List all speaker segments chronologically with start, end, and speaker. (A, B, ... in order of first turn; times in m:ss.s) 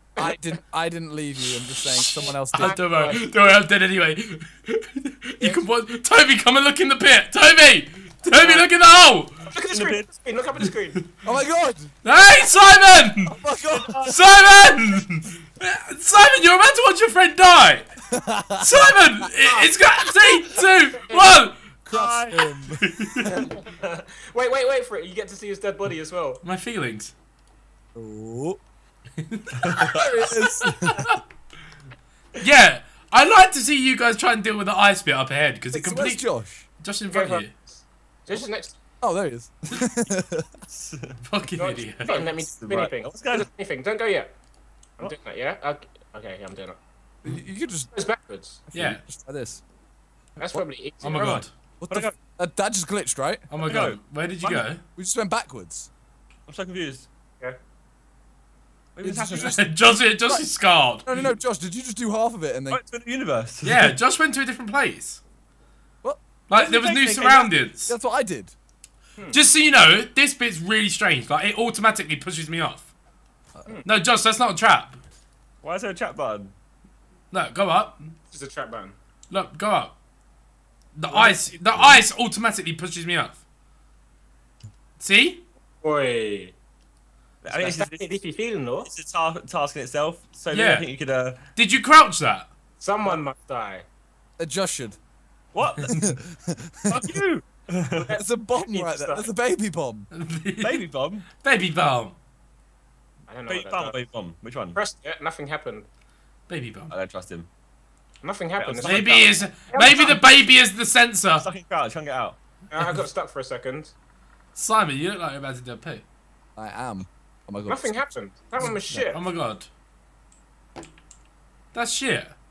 0:00.2-0:02.8 A
0:01.8-0:09.4 B
0:02.2-0:03.5 C
0:08.4-0:08.7 D
0:09.5-0:11.0 C
0:09.7-0:10.1 D
0:11.2-0:11.9 A
0:12.0-0:13.4 B
0:13.3-0:14.2 A
0:13.7-0:14.2 D
0:14.0-0:17.9 B
0:18.1-0:18.9 A
0:18.6-0:21.7 B
0:19.4-0:20.6 C
0:21.8-0:23.5 A
0:21.9-0:22.5 D
0:22.8-0:23.5 B
0:23.4-0:26.4 C
0:26.4-0:27.1 B
0:28.0-0:28.6 A
0:29.2-0:29.8 B
0:29.6-0:31.1 D
0:29.8-0:31.0 A
0:30.5-0:31.2 B
0:32.4-0:36.3 B
0:35.7-0:36.7 A
0:36.8-0:37.5 B
0:37.1-0:38.8 C
0:39.0-0:40.6 A
0:40.7-0:41.2 D
0:41.2-0:42.3 B
0:41.6-0:44.3 C
0:42.0-0:43.5 D
0:45.0-0:46.8 C
0:47.2-0:47.9 A
0:47.9-0:48.6 C
0:48.7-0:49.6 A
0:48.7-0:49.0 B
0:50.4-0:51.4 C
0:51.0-0:51.5 B
0:51.2-0:52.2 D
0:51.8-0:53.5 A
0:53.5-0:54.8 B
0:53.6-0:54.7 D
0:55.0-0:55.9 A
0:56.5-0:57.1 D
0:59.0-0:59.7 D
0:59.0-0:59.7 A
0:59.3-1:01.1 B
1:01.0-1:02.8 A
1:02.7-1:03.7 D
1:03.6-1:05.2 B
1:06.0-1:08.5 A
1:06.5-1:08.0 B
1:09.2-1:09.4 C
1:09.3-1:12.9 B
1:13.8-1:15.0 B
1:15.6-1:16.5 D
1:17.3-1:18.1 B
1:18.3-1:19.0 C
1:19.3-1:19.9 B
1:21.0-1:23.4 B
1:21.1-1:22.0 D
1:25.0-1:25.4 B
1:25.8-1:26.6 C
1:27.4-1:28.2 D
1:27.5-1:28.9 C
1:28.8-1:31.4 D
1:30.5-1:30.9 B
1:31.6-1:32.5 B
1:32.8-1:33.9 C
1:34.4-1:35.0 A
1:35.5-1:36.1 D
1:35.9-1:37.2 A
1:36.9-1:38.1 D
1:38.0-1:39.3 C
1:38.1-1:40.1 A
1:40.1-1:42.2 B
1:40.6-1:41.3 D
1:43.3-1:44.0 C
1:43.5-1:44.8 D
1:44.8-1:45.9 C
1:46.5-1:47.0 B
1:46.9-1:47.5 D
1:48.2-1:50.2 C
1:48.6-1:50.2 D
1:48.8-1:51.5 B
1:51.4-1:52.4 D
1:52.7-1:53.9 C
1:54.6-1:56.0 B
1:56.6-1:58.0 A
1:57.7-1:59.2 C
1:58.7-1:59.1 A
1:59.1-1:59.7 B
2:01.7-2:02.4 B